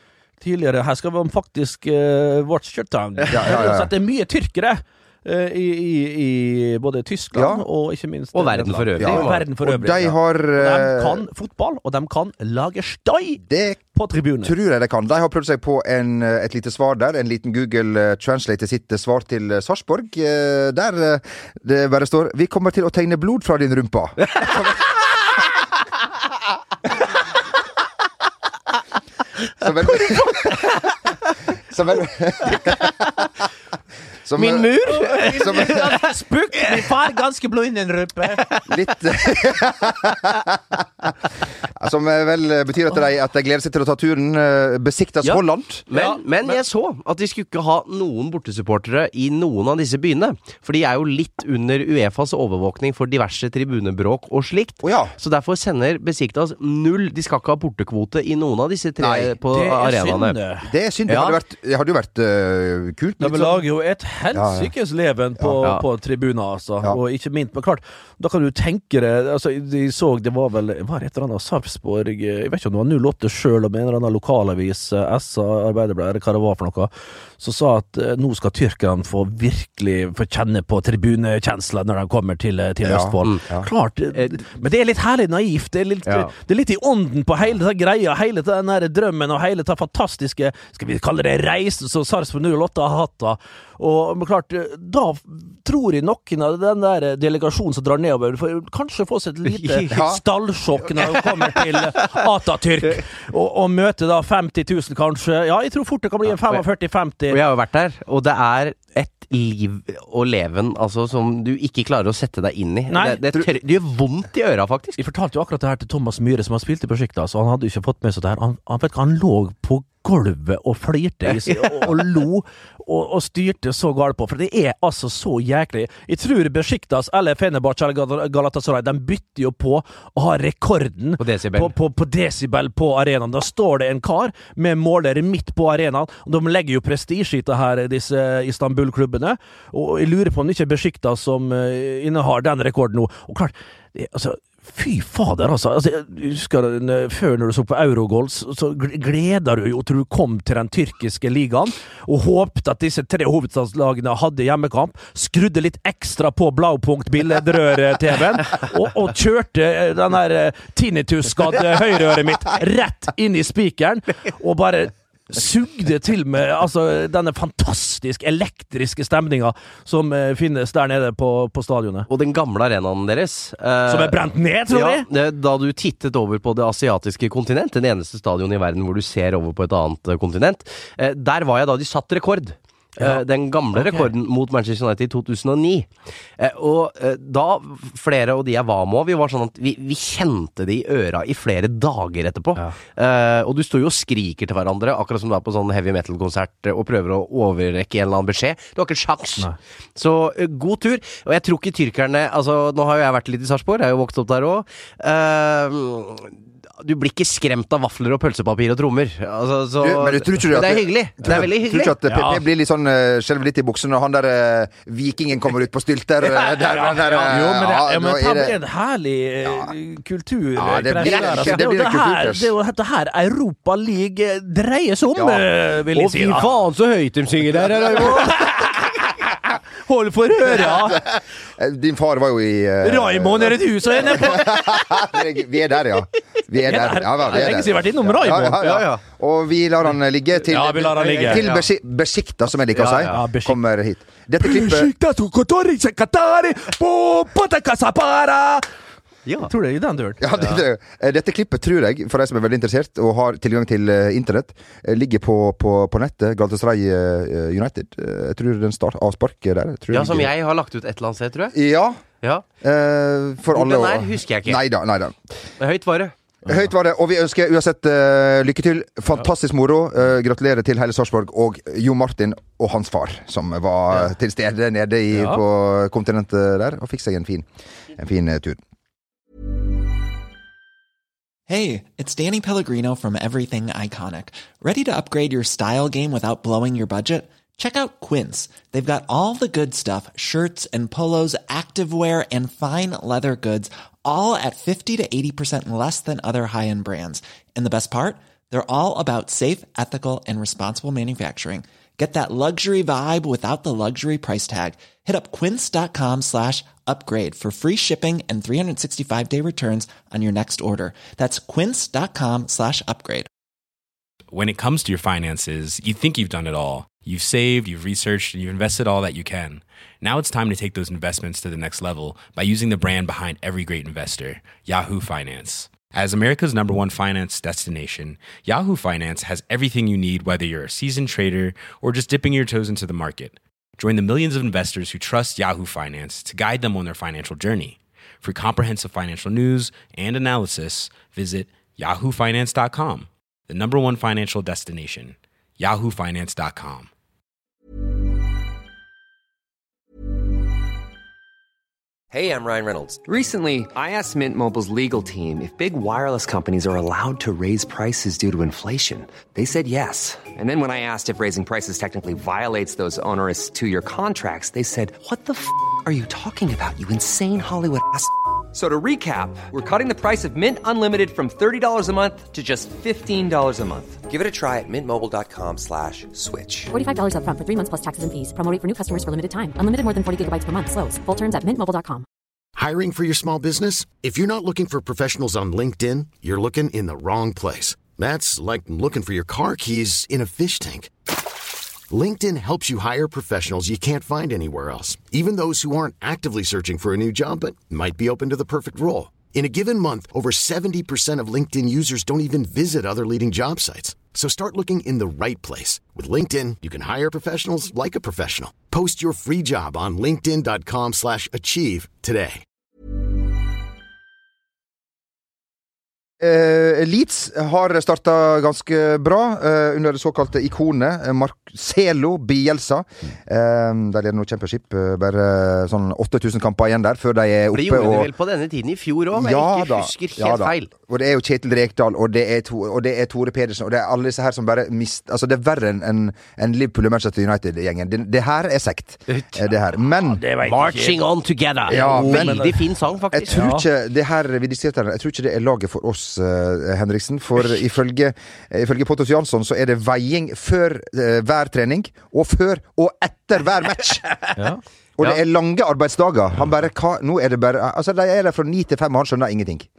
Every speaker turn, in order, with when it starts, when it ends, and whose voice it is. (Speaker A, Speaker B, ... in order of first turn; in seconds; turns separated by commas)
Speaker A: 0.4-13.4, Speaker B: 3.3-3.9, Speaker B: 7.3-7.6, Speaker C: 8.3-9.4, Speaker B: 9.0-11.2, Speaker B: 13.5-13.8, Speaker A: 13.9-14.5, Speaker B: 14.4-24.8, Speaker B: 29.6-30.8, Speaker B: 31.7-32.8, Speaker B: 34.2-34.8, Speaker C: 34.3-36.0, Speaker A: 34.9-38.5, Speaker B: 35.3-36.0, Speaker B: 38.7-41.0, Speaker B: 41.8-45.8, Speaker C: 45.9-60.4, Speaker A: 45.9-46.6, Speaker B: 54.8-55.1, Speaker B: 59.0-59.3, Speaker A: 59.5-60.7, Speaker B: 60.6-63.6, Speaker C: 61.1-61.4, Speaker A: 63.2-107.4, Speaker B: 64.3-64.7, Speaker B: 82.8-83.7, Speaker C: 86.0-86.3, Speaker C: 99.5-99.9, Speaker B: 99.9-100.2, Speaker C: 101.0-102.1, Speaker C: 106.4-106.7, Speaker C: 107.3-115.0, Speaker A: 112.9-113.2, Speaker A: 115.0-172.1, Speaker C: 131.2-131.7, Speaker C: 172.1-212.0, Speaker A: 173.8-175.1, Speaker A: 183.7-184.1, Speaker B: 209.8-218.6, Speaker A: 212.0-212.4, Speaker A: 216.6-226.5, Speaker B: 220.6-222.5, Speaker C: 221.0-221.6, Speaker B: 225.1-225.5, Speaker C: 225.9-228.6, Speaker A: 227.9-228.9, Speaker A: 229.8-231.0, Speaker B: 231.6-244.9, Speaker A: 232.8-235.0, Speaker A: 236.6-238.8, Speaker C: 238.5-239.0, Speaker A: 240.4-241.4, Speaker C: 241.0-241.7, Speaker C: 242.7-243.2, Speaker A: 243.1-243.6, Speaker A: 244.4-248.7, Speaker C: 249.2-249.5, Speaker A: 249.4-250.2, Speaker B: 250.2-260.3, Speaker C: 259.9-261.5, Speaker B: 261.5-262.0, Speaker B: 262.6-265.1, Speaker C: 263.5-264.6, Speaker C: 265.6-266.1, Speaker B: 266.4-278.6, Speaker D: 281.5-313.3, Speaker E: 314.3-346.9, Speaker F: 352.1-376.7, Speaker G: 376.7-382.0, Speaker H: 382.6-390.9, Speaker H: 391.9-412.4, Speaker B: 416.2-428.1, Speaker C: 427.5-430.7, Speaker B: 429.1-440.2, Speaker C: 439.1-439.4, Speaker A: 440.0-441.0, Speaker C: 440.4-443.4, Speaker B: 441.7-442.5, Speaker A: 441.7-442.6, Speaker B: 443.1-454.1, Speaker A: 443.3-443.6, Speaker B: 455.0-459.7